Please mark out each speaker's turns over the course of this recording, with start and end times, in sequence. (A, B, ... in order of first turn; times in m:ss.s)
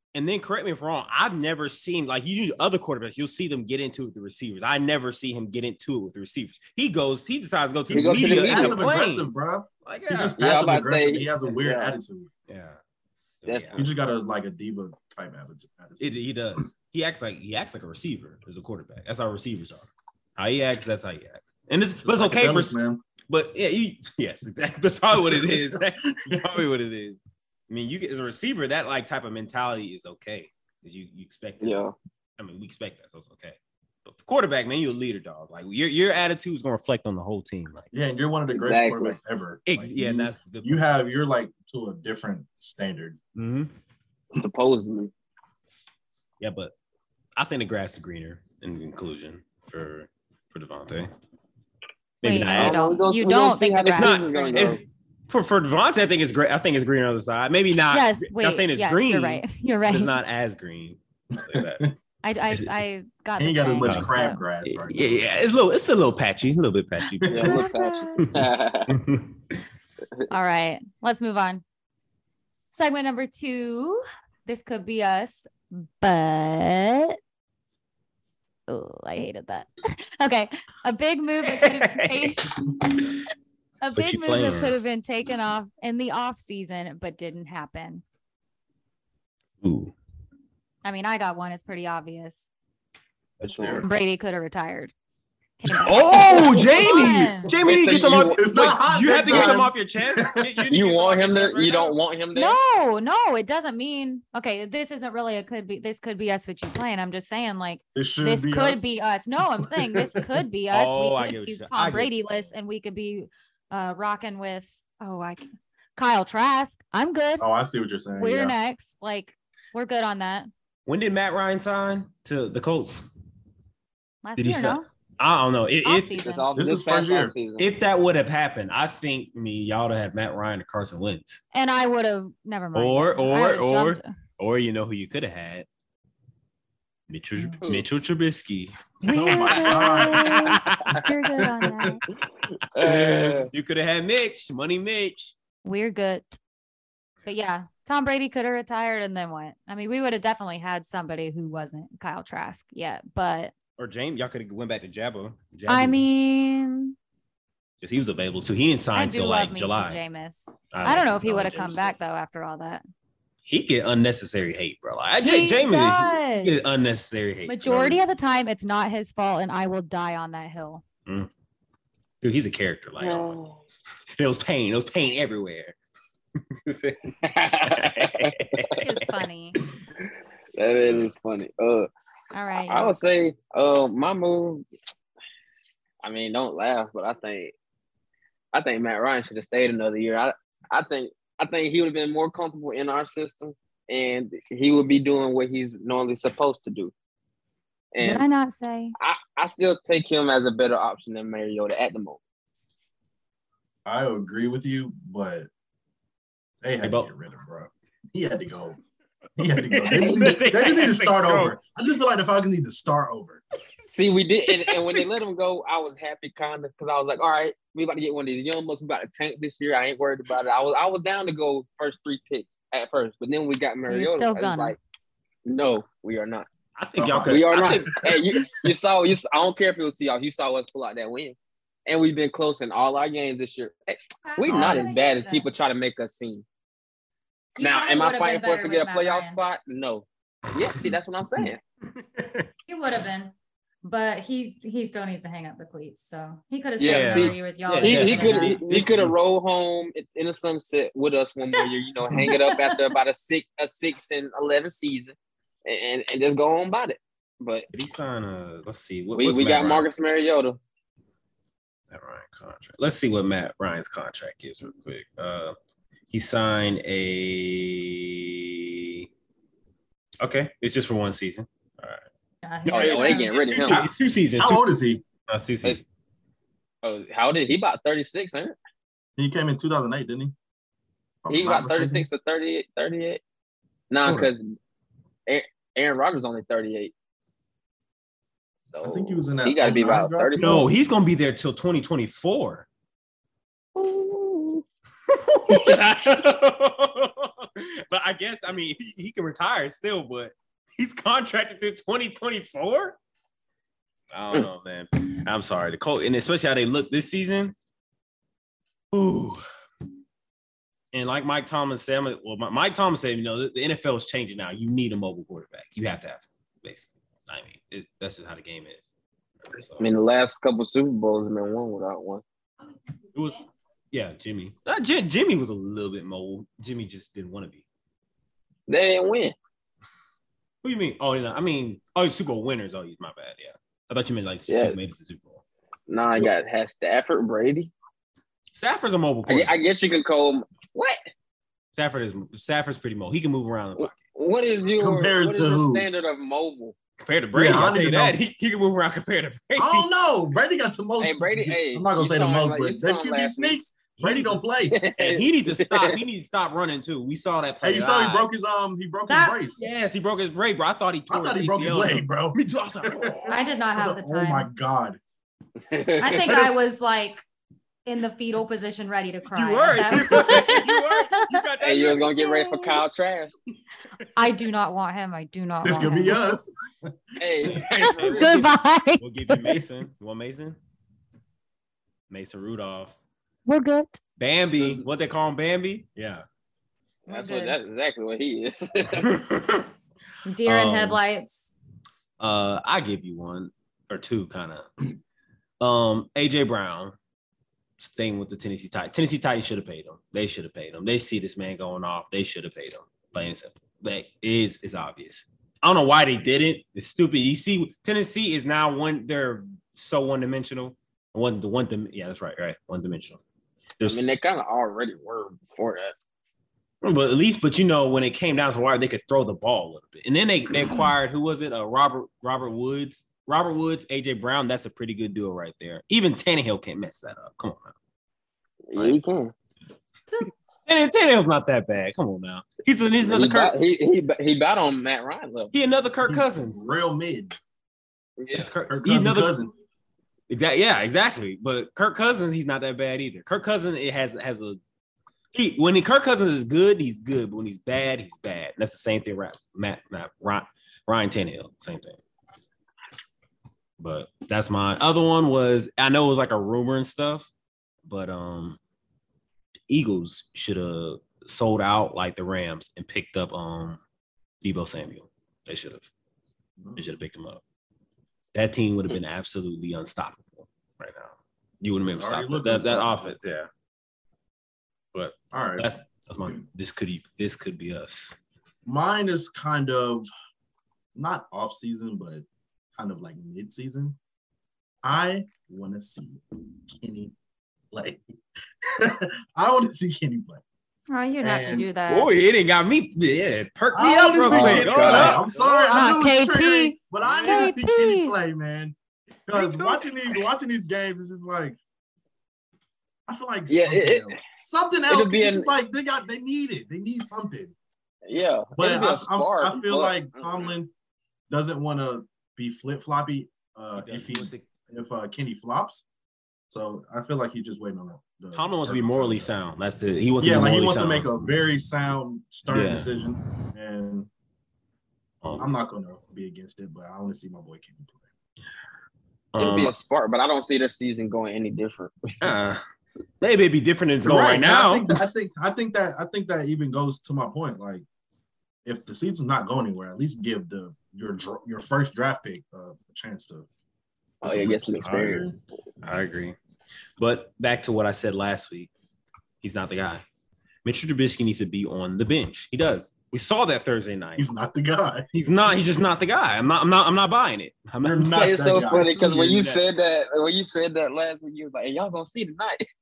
0:00.1-0:09.3 A
0:07.9-0:12.3 B
0:07.9-0:08.9 C
0:09.8-0:10.4 A
0:10.4-0:12.0 C
0:12.5-0:12.8 A
0:13.4-0:13.8 A
0:13.4-0:13.8 C
0:13.8-0:16.1 B
0:16.0-0:22.7 A
0:22.0-0:23.0 B
0:23.3-0:31.8 A
0:25.2-0:26.6 B
0:31.6-0:31.9 C
0:32.4-0:37.9 A
0:37.9-0:43.2 B
0:38.5-0:39.2 C
0:39.7-0:40.8 A
0:43.4-0:43.7 A
0:44.3-0:45.1 C
0:46.4-0:46.7 A
0:47.4-0:51.1 A
0:52.2-0:52.8 A
0:52.2-0:54.8 D
0:52.5-0:54.8 C
0:53.9-1:01.9 A
0:57.9-1:00.2 D
1:01.4-1:01.9 B
1:02.2-1:04.4 D
1:03.4-1:05.2 B
1:03.8-1:04.1 A
1:04.6-1:07.5 A
1:07.2-1:07.5 B
1:07.3-1:08.9 C
1:07.4-1:08.3 D
1:08.9-1:09.3 A
1:10.3-1:11.6 D
1:12.7-1:17.2 D
1:18.7-1:23.1 D
1:21.4-1:22.4 A
1:23.8-1:28.0 D
1:24.0-1:24.8 A
1:29.6-1:29.9 A
1:30.8-1:32.5 D
1:33.4-1:33.9 A
1:33.4-1:33.8 C
1:33.8-1:34.9 D
1:35.6-1:37.5 D
1:35.8-1:42.0 A
1:36.1-1:37.3 B
1:37.6-1:38.5 C
1:38.3-1:40.6 B
1:39.3-1:39.6 C
1:40.7-1:42.6 C
1:42.3-1:57.5 D
1:47.9-1:48.8 B
1:49.7-1:50.0 B
1:50.7-1:52.2 A
1:57.4-1:58.5 B
1:58.2-2:00.5 D
2:00.9-2:03.1 A
2:04.2-2:04.9 D
2:04.4-2:06.2 A
2:05.8-2:06.4 D
2:06.2-2:07.7 C
2:06.5-2:07.3 B
2:07.6-2:11.4 A
2:11.5-2:14.1 D
2:12.7-2:15.7 A
2:17.1-2:21.1 A
2:17.6-2:17.9 C
2:19.0-2:22.0 D
2:19.1-2:20.5 B
2:22.7-2:23.5 C
2:22.8-2:25.3 A
2:25.6-2:26.4 D
2:27.2-2:33.5 D
2:33.8-2:36.0 A
2:35.7-2:36.9 D
2:37.8-2:40.0 A
2:38.9-2:42.8 D
2:40.7-2:42.0 A
2:43.4-2:48.0 A
2:45.2-2:46.6 D
2:47.5-2:50.8 D
2:52.2-2:53.4 A
2:53.0-2:53.6 C
2:54.2-2:55.8 A
2:56.6-2:57.0 A
2:57.2-2:58.8 C
2:57.7-2:58.9 A
2:58.8-2:59.6 D
3:00.0-3:01.9 C
3:00.8-3:01.1 A
3:02.3-3:02.9 D
3:02.7-3:04.6 C
3:06.0-3:07.5 C
3:08.5-3:16.9 C
3:17.9-3:18.2 C
3:18.0-3:18.9 D
3:19.0-3:22.2 C
3:23.8-3:25.5 B
3:26.6-3:28.8 B
3:26.8-3:27.1 A
3:29.4-3:33.4 B
3:29.7-3:31.5 A
3:33.9-3:44.8 C
3:34.5-3:35.0 A
3:43.9-3:44.8 D
3:45.4-3:46.5 C
3:46.8-3:48.2 A
3:47.0-3:48.3 B
3:47.3-3:51.4 C
3:51.9-3:56.4 C
3:54.2-3:55.5 D
3:54.5-3:54.9 A
3:54.5-3:55.0 B
3:57.6-3:59.4 D
3:57.6-4:01.6 C
4:01.4-4:02.5 A
4:02.7-4:08.6 D
4:06.8-4:15.1 C
4:06.8-4:09.1 A
4:12.2-4:12.8 D
4:15.6-4:17.7 C
4:17.7-4:19.9 A
4:19.1-4:20.6 C
4:21.9-4:25.5 A
4:26.1-4:29.1 A
4:30.2-4:32.0 A
4:32.4-4:33.4 D
4:32.6-4:34.7 A
4:32.7-4:33.9 C
4:34.4-4:35.0 B
4:35.2-4:35.8 A
4:36.8-4:38.5 C
4:39.2-4:40.3 B
4:41.2-4:42.1 B
4:41.3-4:43.2 C
4:43.9-4:44.5 C
4:44.0-4:44.3 B
4:45.3-4:46.9 C
4:48.6-4:50.6 C
4:48.8-4:50.7 B
4:50.4-4:52.6 A
4:53.8-4:54.6 C
4:55.1-5:03.0 A
5:04.1-5:07.5 A
5:08.9-5:09.4 A
5:10.9-5:18.9 A
5:19.4-5:19.8 A
5:19.8-5:22.2 C
5:23.1-5:27.6 A
5:28.7-5:29.3 C
5:30.6-5:35.4 A
5:34.5-5:34.8 C
5:35.9-5:37.7 C
5:38.5-5:39.5 A
5:39.3-5:41.0 C
5:41.7-5:44.0 A
5:43.8-5:46.7 C
5:44.7-5:45.8 B
5:47.0-5:49.9 A
5:47.3-5:48.2 B
5:49.6-5:54.8 B
5:51.0-5:53.6 C
5:54.0-5:54.4 A
5:54.7-5:56.0 C
5:55.0-5:58.4 A
5:57.6-5:59.6 B
5:59.1-5:59.4 D
5:59.6-6:03.4 A
6:01.1-6:05.0 B
6:03.3-6:04.5 D
6:05.7-6:06.4 C
6:06.0-6:07.2 D
6:07.8-6:11.4 D
6:09.3-6:12.6 A
6:11.6-6:13.4 C
6:14.2-6:16.2 D
6:15.6-6:16.9 B
6:17.2-6:18.5 C
6:17.4-6:20.6 A
6:17.8-6:19.6 D
6:22.1-6:23.0 A
6:23.4-6:24.0 D
6:24.2-6:26.2 A
6:24.6-6:24.8 C
6:27.1-6:27.6 D
6:27.1-6:29.1 C
6:28.9-6:29.7 A
6:30.2-6:31.5 D
6:30.4-6:31.0 A
6:32.2-6:34.7 A
6:35.6-6:36.9 A
6:37.8-6:53.2 A
6:53.8-6:54.0 A
6:53.8-6:55.9 C
6:56.8-7:07.7 A
7:08.7-7:09.3 C
7:10.2-7:13.5 A
7:13.0-7:15.5 C
7:15.5-7:16.6 A
7:16.0-7:17.3 B
7:18.2-7:18.5 C
7:18.3-7:19.3 A
7:18.7-7:19.5 B
7:20.3-7:24.6 A
7:25.3-7:32.0 A
7:33.8-7:37.3 A
7:37.8-7:38.6 A
7:39.7-7:43.8 A
7:44.4-7:45.9 A
7:46.6-7:46.8 B
7:46.8-7:47.4 A
7:48.3-7:53.5 A
7:51.9-7:53.2 B
7:54.9-7:58.2 A
7:55.3-7:55.7 B
7:58.6-8:00.1 B
8:00.9-8:02.2 B
8:02.8-8:04.0 B
8:04.8-8:07.1 B
8:07.7-8:08.0 B
8:08.8-8:10.4 B
8:10.9-8:12.1 D
8:11.2-8:11.7 B
8:11.9-8:15.7 A
8:13.7-8:18.7 B
8:14.2-8:15.3 C
8:15.7-8:18.1 D
8:17.0-8:17.5 A
8:19.3-8:21.6 B
8:19.3-8:20.0 A
8:23.1-8:27.5 B
8:23.5-8:24.1 C
8:24.9-8:25.5 C
8:28.0-8:30.5 C
8:28.6-8:30.7 B
8:31.3-8:35.8 B
8:33.8-8:34.5 A
8:36.5-8:39.3 B
8:38.3-8:41.3 A
8:40.2-8:44.1 B
8:42.5-8:42.9 A
8:45.2-8:45.5 A
8:45.4-8:48.0 B
8:49.3-8:49.7 A
8:49.4-8:51.9 C
8:52.2-8:52.6 A
8:53.2-8:55.1 A
8:54.0-8:57.8 B
8:58.6-9:03.5 B
9:04.2-9:05.3 C
9:04.2-9:05.3 A
9:04.3-9:05.3 B
9:05.8-9:06.4 A
9:07.0-9:08.7 A
9:09.4-9:10.0 A
9:10.6-9:14.3 A
9:14.2-9:15.1 B
9:15.1-9:19.6 A
9:17.8-9:19.0 B
9:18.2-9:22.6 C